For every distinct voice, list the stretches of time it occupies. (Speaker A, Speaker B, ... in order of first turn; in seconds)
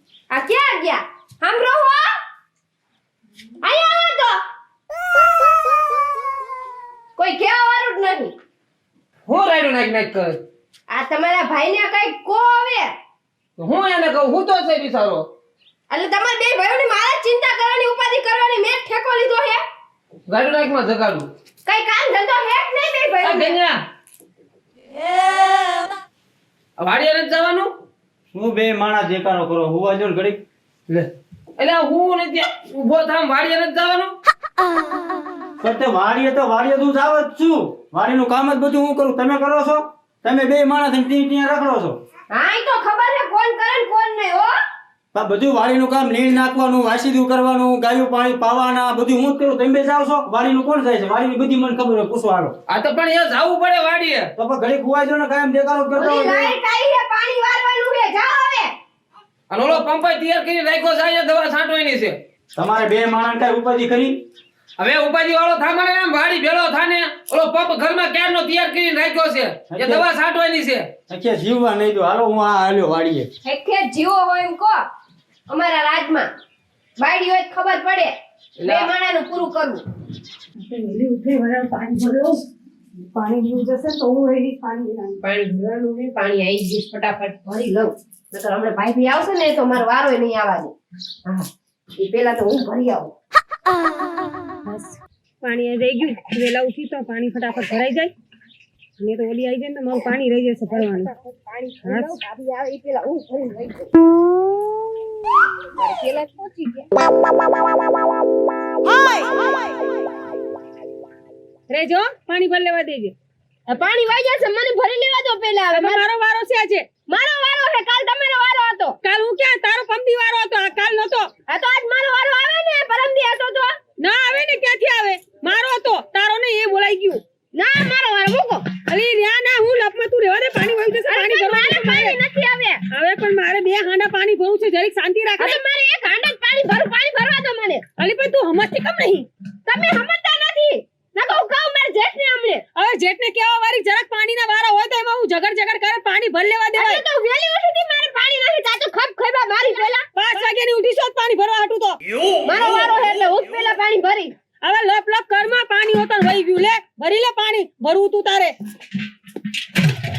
Speaker A: 0.3-2.1, 3.6-4.4, 7.2-8.3, 10.9-12.9, 15.9-19.6, 21.7-23.6, 42.3-44.5, 56.0-58.7, 73.5-74.8, 75.5-76.3, 77.0-78.1, 78.6-79.8, 85.2-90.7, 91.3-93.1, 100.7-103.9, 105.8-106.9, 113.7-116.0, 117.1-119.0, 121.5-123.7, 127.5-128.7, 131.1-132.8, 135.4-137.8, 139.7-142.6, 146.8-150.4, 152.4-154.3
Speaker B: 9.3-10.4, 13.6-15.3, 20.3-21.3, 23.2-23.8, 26.8-27.7, 30.9-34.1, 52.7-54.3, 59.5-62.2, 64.8-70.9, 78.6-78.9
Speaker C: 28.3-30.4, 35.6-42.0, 45.1-52.5, 54.4-56.5, 62.6-64.2, 69.7-70.1, 71.1-73.3
Speaker D: 80.6-82.4, 83.0-85.2, 94.7-98.1, 99.0-101.1, 101.8-102.2, 111.7-113.1, 115.7-116.9, 119.0-121.3, 124.0-127.2, 128.9-132.2, 132.9-135.6, 138.0-139.3, 142.8-147.0, 150.1-152.0, 154.6-158.5